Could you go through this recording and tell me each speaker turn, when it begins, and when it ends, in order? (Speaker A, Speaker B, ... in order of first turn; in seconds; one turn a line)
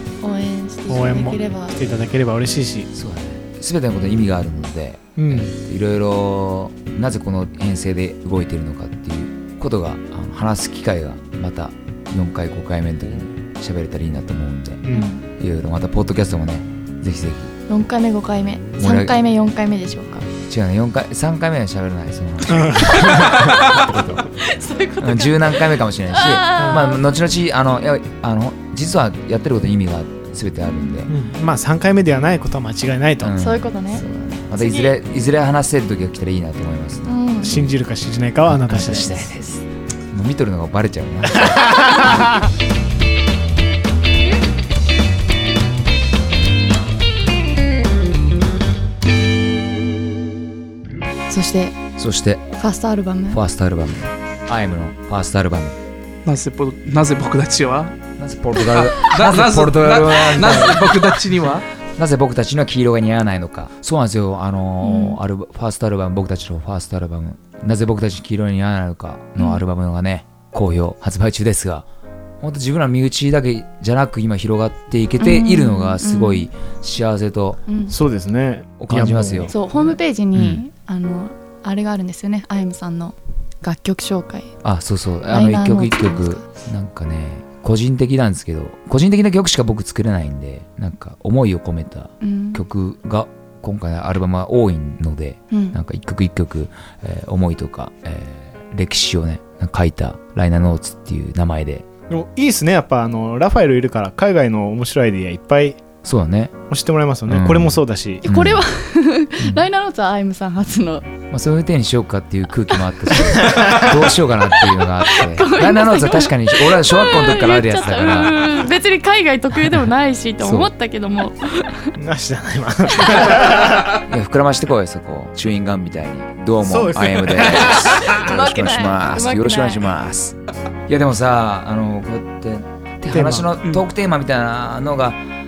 Speaker A: 0.2-1.8
Speaker B: 0.9-2.9
Speaker C: 2.9-17.5
Speaker B: 5.2-5.5
Speaker B: 14.8-15.1
Speaker A: 14.9-15.2
Speaker A: 17.7-20.3
Speaker C: 18.8-19.1
Speaker C: 20.4-24.3
Speaker B: 22.5-24.2
Speaker A: 24.2-27.0
Speaker C: 25.0-31.1
Speaker B: 26.6-26.9
Speaker A: 30.6-31.0
Speaker B: 31.1-33.3
Speaker C: 33.2-37.8
Speaker A: 33.3-35.0
Speaker A: 37.0-37.5
Speaker B: 37.5-39.2
Speaker C: 38.5-42.4
Speaker B: 41.3-42.4
Speaker A: 51.3-51.8
Speaker C: 52.0-52.5
Speaker A: 52.6-53.4
Speaker C: 53.3-55.8
Speaker D: 56.2-58.0
Speaker C: 58.2-61.2
Speaker D: 58.6-61.7
Speaker C: 62.0-71.8
Speaker A: 64.8-65.2
Speaker A: 69.4-69.6
Speaker C: 72.4-77.6
Speaker A: 75.2-76.5
Speaker A: 77.7-78.0
Speaker B: 77.9-79.5
Speaker C: 78.8-80.6
Speaker A: 79.5-84.5
Speaker C: 84.6-101.8
Speaker A: 85.3-86.4
Speaker A: 92.2-92.6
Speaker A: 95.5-95.8
Speaker B: 102.1-105.8
Speaker C: 106.0-106.5
Speaker B: 106.7-108.2
Speaker C: 107.3-108.6
Speaker A: 108.2-111.0
Speaker C: 109.4-109.7
Speaker C: 111.3-118.6
Speaker B: 113.4-113.9
Speaker A: 114.9-121.9
Speaker C: 120.4-120.7
Speaker B: 122.0-124.0
Speaker C: 123.3-130.4
Speaker B: 126.7-128.2
Speaker A: 127.6-129.8
Speaker C: 130.9-135.2
Speaker B: 133.1-133.5